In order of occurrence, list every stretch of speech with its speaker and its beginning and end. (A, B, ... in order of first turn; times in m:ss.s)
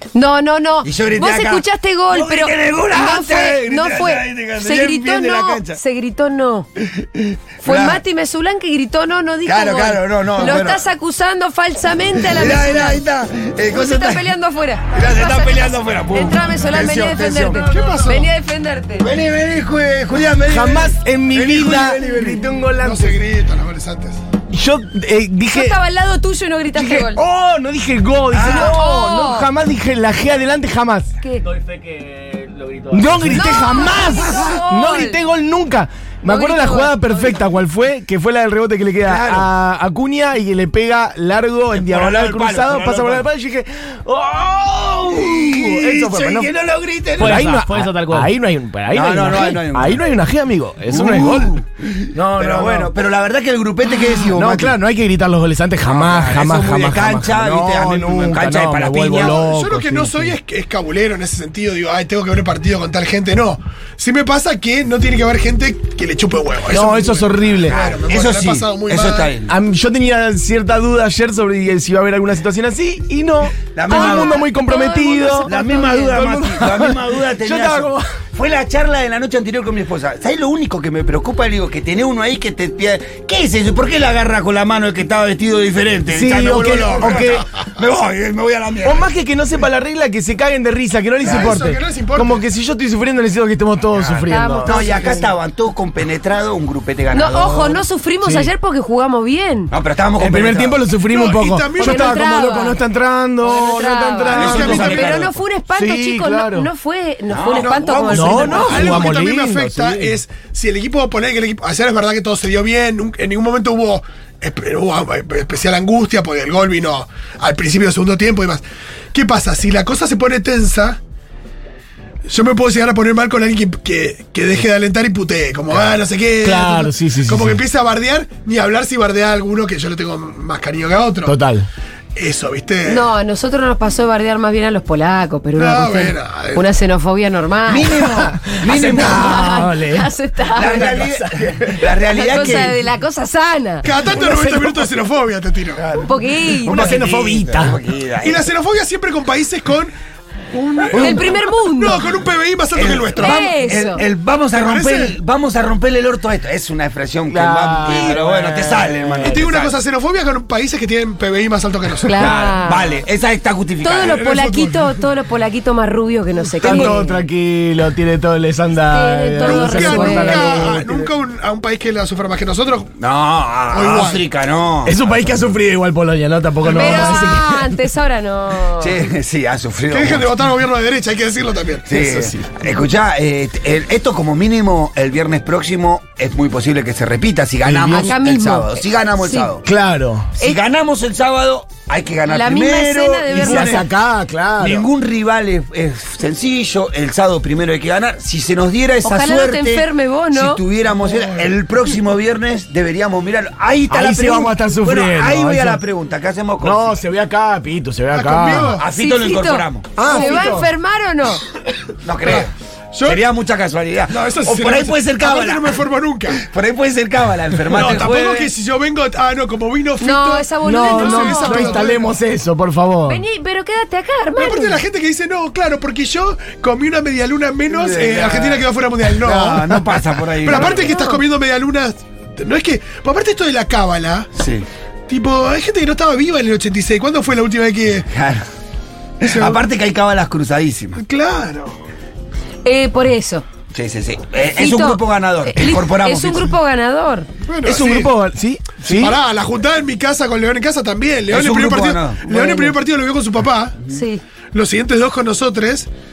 0:00.1-0:06.7 A
0:00.8-0:05.8 B
0:06.8-0:08.0 B
0:07.6-0:13.0 A
0:09.4-0:10.8 B
0:12.1-0:14.3 B
0:13.7-0:19.1 A
0:14.9-0:17.9 B
0:17.6-0:18.3 C
0:19.0-0:22.4 B
0:20.5-0:23.2 D
0:22.8-0:24.2 C
0:24.5-0:25.8 D
0:25.5-0:27.2 A
0:26.7-0:31.1 D
0:28.3-0:28.8 B
0:28.4-0:29.5 A
0:31.4-0:33.6 E
0:32.9-0:46.5 D
0:33.3-0:35.2 A
0:34.2-0:34.5 B
0:36.2-0:37.4 A
0:39.0-0:39.5 B
0:41.7-0:43.3 B
0:45.0-0:48.2 B
0:47.2-0:51.6 D
0:47.3-0:47.8 E
0:48.9-0:50.0 B
0:50.9-0:54.8 B
0:52.1-0:52.9 D
0:54.0-1:00.3 D
0:55.8-0:59.4 B
0:59.2-1:09.3 C
1:06.7-1:07.8 D
1:07.6-1:09.5 B
1:09.5-1:18.1 D
1:13.7-1:14.4 B
1:13.9-1:16.2 A
1:15.4-1:29.1 B
1:26.1-1:27.5 D
1:26.6-1:27.3 C
1:28.8-1:35.1 D
1:31.2-1:32.4 C
1:31.2-1:31.6 B
1:34.0-1:37.8 B
1:34.3-1:35.2 A
1:37.1-1:39.7 A
1:38.2-1:38.5 D
1:39.7-1:40.8 B
1:40.2-1:45.1 D
1:41.1-1:42.5 C
1:41.8-1:42.8 A
1:43.4-1:49.0 A
1:44.3-1:45.2 C
1:44.3-1:45.4 B
1:45.7-1:46.7 D
1:47.3-1:49.0 B
1:47.5-2:01.0 C
1:48.1-1:50.2 D
2:02.3-2:11.3 C
2:06.4-2:07.6 D
2:11.2-2:11.7 D
2:12.2-2:13.1 C
2:12.8-2:18.1 A
2:15.5-2:16.6 C
2:17.7-2:19.6 B
2:17.9-2:21.8 D
2:18.7-2:20.9 A
2:20.5-2:22.8 B
2:22.0-2:24.7 A
2:23.8-2:25.8 C
2:25.8-2:28.5 B
2:26.0-2:27.0 A
2:26.6-2:27.8 D
2:28.2-2:29.9 C
2:30.5-2:33.6 C
2:30.9-2:32.0 A
2:32.7-2:39.8 B
2:33.2-2:34.0 A
2:34.5-2:35.1 C
2:37.3-2:39.5 D
2:39.2-2:42.3 C
2:42.0-2:43.0 A
2:42.2-2:44.3 B
2:43.8-2:47.2 A
2:44.0-2:45.0 C
2:46.6-2:51.1 D
2:48.9-2:50.7 A
2:49.4-2:52.9 C
2:53.0-2:55.6 B
2:53.7-2:54.2 C
2:54.8-2:57.7 D
2:56.7-2:57.3 C
2:56.7-2:59.0 A
2:58.8-3:00.3 B
2:59.9-3:01.9 C
3:01.8-3:09.6 B
3:01.9-3:02.6 D
3:07.6-3:08.1 D
3:07.9-3:09.5 A
3:09.6-3:10.3 D
3:10.4-3:13.9 B
3:12.3-3:13.8 A
3:13.3-3:14.9 D
3:14.6-3:27.0 B
3:19.0-3:20.6 A
3:20.9-3:21.5 C
3:23.9-3:25.8 D
3:26.6-3:28.8 D
3:28.1-3:28.8 C
3:28.8-3:30.0 B
3:28.9-3:31.4 A
3:30.0-3:30.7 D
3:30.0-3:30.5 C
3:32.0-3:32.5 B
3:32.2-3:33.2 C
3:33.0-3:38.5 B
3:34.1-3:36.4 C
3:37.7-3:42.2 C
3:40.0-3:41.8 A
3:40.6-3:43.2 D
3:43.0-3:44.8 A
3:44.4-3:54.3 C
3:47.7-3:51.0 B
3:50.5-3:51.2 A
3:54.3-3:54.7 B
3:55.1-3:58.1 C
3:58.1-3:58.5 B
3:59.2-4:01.0 B
3:59.2-3:59.6 C
4:01.0-4:01.8 C
4:02.6-4:03.4 A
4:03.7-4:06.5 B
4:04.6-4:07.3 A
4:07.4-4:08.1 C
4:07.6-4:09.2 D
4:08.8-4:13.8 C
4:11.3-4:12.5 B
4:13.9-4:14.2 A
4:14.5-4:15.9 C